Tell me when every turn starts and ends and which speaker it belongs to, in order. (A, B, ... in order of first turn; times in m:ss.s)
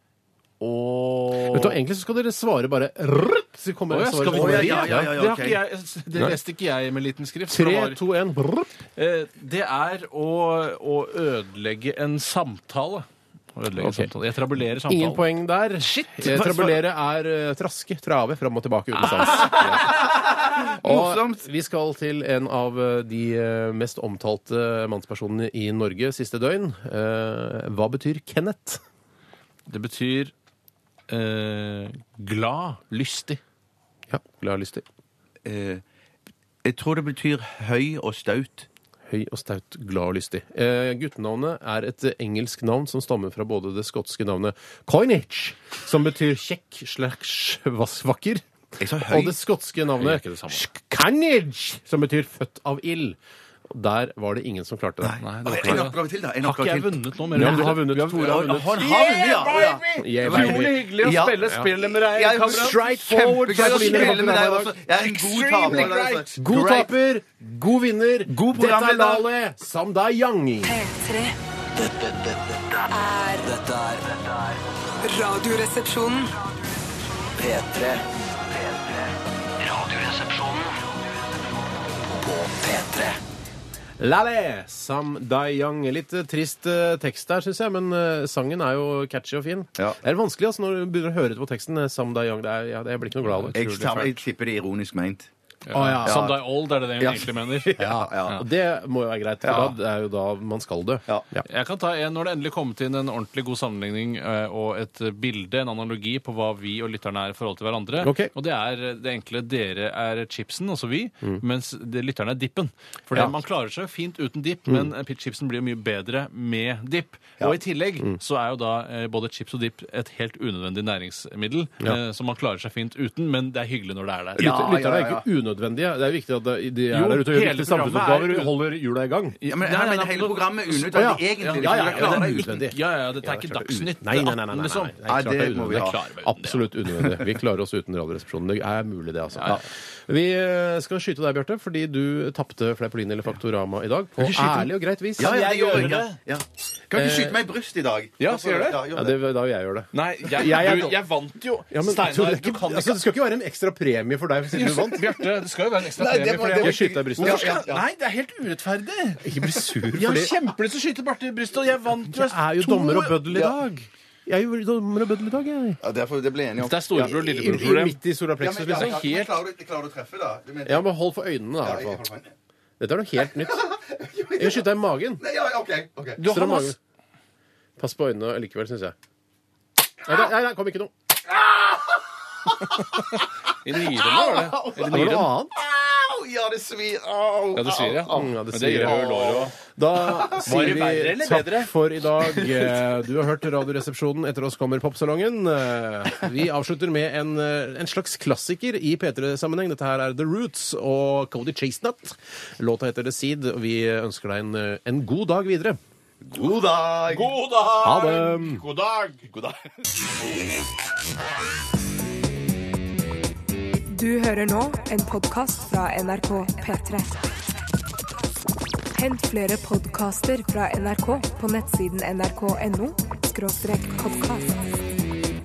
0:00.6-0:01.8 A
0:01.4-0:05.1 B
0:03.9-0:08.0 A
0:04.3-0:05.6 C
0:07.5-0:08.7 B
0:09.0-0:16.4 A
0:13.8-0:14.1 B
0:14.8-0:20.1 B
0:16.2-0:16.8 C
0:19.0-0:19.8 A
0:19.1-0:21.4 C
0:20.8-0:28.8 B
0:29.7-0:30.3 A
0:31.1-0:33.4 A
0:34.1-0:34.8 B
0:35.4-0:35.8 C
0:36.6-0:38.7 C
0:39.1-0:48.4 B
0:48.8-0:49.4 C
0:49.0-0:53.2 B
0:50.0-0:50.6 A
0:53.7-0:55.8 B
0:55.0-1:06.9 C
0:55.2-1:02.8 A
0:57.3-0:58.7 B
1:00.0-1:00.8 B
1:02.4-1:04.8 B
1:03.5-1:04.4 A
1:05.0-1:06.4 A
1:05.4-1:10.8 B
1:08.3-1:09.3 C
1:10.6-1:11.4 D
1:11.8-1:14.6 E
1:12.9-1:13.5 D
1:15.0-1:16.3 D
1:17.4-1:21.0 E
1:21.9-1:23.2 E
1:24.0-1:33.6 B
1:33.2-1:34.2 A
1:33.5-1:35.3 C
1:35.7-1:38.4 A
1:35.7-1:36.3 B
1:36.0-1:36.4 C
1:37.0-1:38.4 C
1:37.8-1:41.5 B
1:39.4-1:39.7 C
1:41.4-2:04.5 A
1:48.0-1:48.3 B
2:04.4-2:05.2 C
2:04.4-2:09.4 B
2:06.9-2:08.5 A
2:09.4-2:15.0 A
2:09.4-2:12.6 C
2:10.9-2:25.9 B
2:15.0-2:16.0 C
2:15.6-2:16.7 A
2:19.4-2:19.6 A
2:24.2-2:29.2 C
2:25.2-2:26.2 A
2:27.0-2:27.4 B
2:28.2-2:28.8 A
2:28.9-2:31.0 B
2:29.9-2:33.0 A
2:31.7-2:35.2 B
2:34.5-2:43.2 A
2:35.9-2:37.9 C
2:36.6-2:37.6 B
2:39.2-2:40.4 B
2:42.1-2:45.8 B
2:43.2-2:43.6 C
2:45.8-2:47.6 C
2:46.6-2:48.0 A
2:47.4-2:49.0 B
2:48.4-2:50.9 C
2:48.7-2:49.4 A
2:50.7-2:52.1 B
2:51.6-2:52.3 C
2:52.8-2:53.6 B
2:53.2-2:56.2 C
2:54.4-2:55.2 B
2:56.2-2:56.7 A
2:56.2-2:56.8 B
2:57.8-2:59.0 B
3:00.0-3:00.9 B
3:01.3-3:03.1 C
3:03.6-3:05.3 A
3:03.7-3:09.5 C
3:04.7-3:05.5 B
3:07.5-3:09.6 A
3:08.2-3:25.8 B
3:10.3-3:11.7 A
3:10.3-3:10.8 C
3:12.2-3:12.9 C
3:26.2-3:27.4 C
3:27.1-3:29.3 A
3:27.8-3:28.6 B
3:29.3-3:29.6 C
3:33.9-3:37.2 F
3:39.0-3:44.6 F